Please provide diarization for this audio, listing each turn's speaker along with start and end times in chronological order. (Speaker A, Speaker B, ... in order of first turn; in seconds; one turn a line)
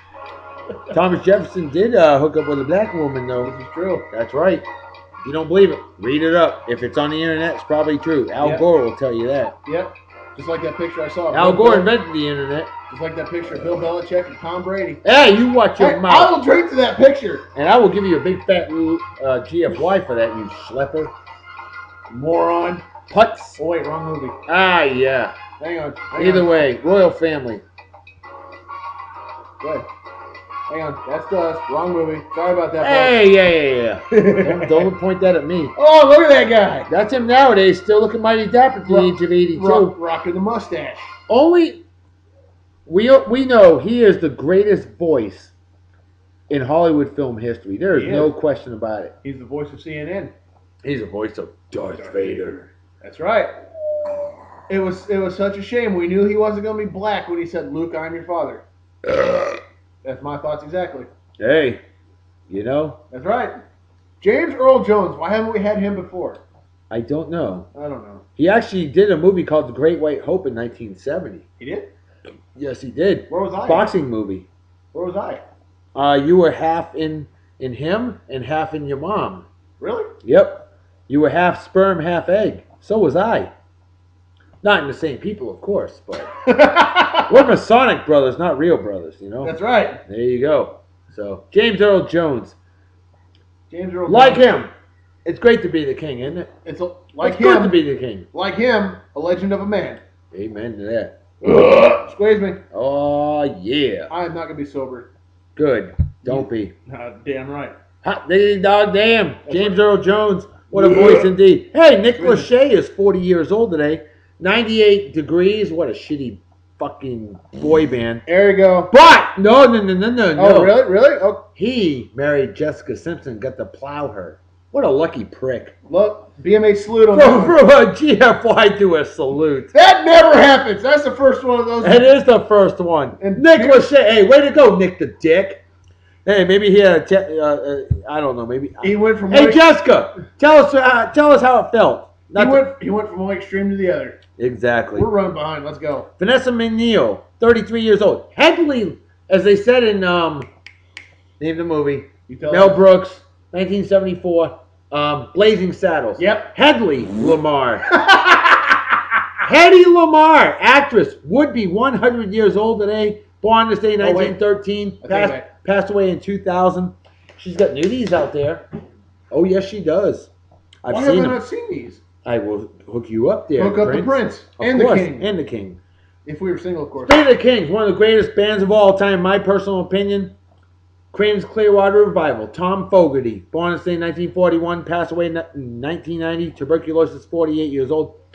Speaker A: 0.9-3.5
Speaker B: 3.4-4.1
Speaker A: 4.1-4.7
Speaker A: 5.2-9.6
Speaker B: 8.4-8.7
Speaker B: 9.7-11.9
Speaker A: 11.3-12.7
Speaker B: 12.9-15.0
Speaker A: 15.0-16.4
Speaker B: 15.8-17.5
Speaker A: 17.6-21.1
Speaker B: 22.1-22.9
Speaker A: 23.1-23.6
Speaker B: 23.6-24.4
Speaker A: 24.5-25.4
Speaker B: 25.6-26.6
Speaker A: 26.1-27.6
Speaker B: 29.6-29.9
Speaker B: 30.7-33.2
Speaker A: 32.8-35.7
Speaker B: 34.1-34.9
Speaker B: 35.8-36.9
Speaker A: 36.9-40.0
Speaker B: 38.9-41.1
Speaker A: 41.3-41.8
Speaker A: 42.9-45.5
Speaker A: 46.5-49.1
Speaker B: 47.9-48.3
Speaker B: 49.2-50.3
Speaker A: 50.8-52.7
Speaker B: 51.9-52.5
Speaker B: 53.0-53.5
Speaker B: 54.7-58.6
Speaker B: 60.0-61.1
Speaker A: 61.4-61.8
Speaker A: 62.5-63.0
Speaker B: 63.1-63.5
Speaker B: 64.2-66.4
Speaker A: 66.9-67.7
Speaker B: 67.7-68.2
Speaker A: 68.4-71.4
Speaker B: 71.6-71.9
Speaker A: 72.5-74.5
Speaker B: 73.3-73.9
Speaker B: 74.9-75.4
Speaker A: 76.0-79.5
Speaker B: 79.8-80.1
Speaker A: 80.2-83.5
Speaker A: 84.6-86.3
Speaker B: 86.5-87.3
Speaker A: 87.3-89.5
Speaker B: 89.4-90.0
Speaker A: 90.1-92.6
Speaker B: 93.7-94.5
Speaker A: 94.1-94.7
Speaker A: 95.2-96.5
Speaker B: 96.7-97.8
Speaker A: 97.2-98.3
Speaker B: 98.3-100.0
Speaker A: 100.3-101.2
Speaker B: 102.0-102.6
Speaker A: 102.7-104.1
Speaker B: 104.1-105.1
Speaker A: 105.6-106.7
Speaker B: 106.2-107.8
Speaker A: 108.0-118.2
Speaker B: 109.5-109.8
Speaker B: 110.7-111.3
Speaker B: 112.2-112.5
Speaker B: 118.3-118.9
Speaker A: 118.9-120.8
Speaker B: 120.4-121.5
Speaker A: 121.6-125.8
Speaker B: 125.9-127.6
Speaker A: 127.1-129.7
Speaker B: 129.7-132.1
Speaker A: 131.8-135.6
Speaker B: 133.2-134.0
Speaker A: 136.2-142.7
Speaker B: 138.8-139.7
Speaker B: 142.3-144.2
Speaker A: 144.4-145.1
Speaker B: 144.9-146.1
Speaker A: 146.2-150.5
Speaker A: 151.4-157.9
Speaker B: 152.3-152.8
Speaker B: 156.2-156.5
Speaker B: 157.9-159.0
Speaker A: 159.4-168.7
Speaker B: 164.0-164.4
Speaker B: 165.0-165.5
Speaker A: 169.3-170.3
Speaker A: 170.8-171.4
Speaker B: 170.9-172.0
Speaker A: 172.2-175.8
Speaker B: 173.6-175.3
Speaker B: 176.2-177.2
Speaker A: 177.0-180.3
Speaker A: 181.1-188.2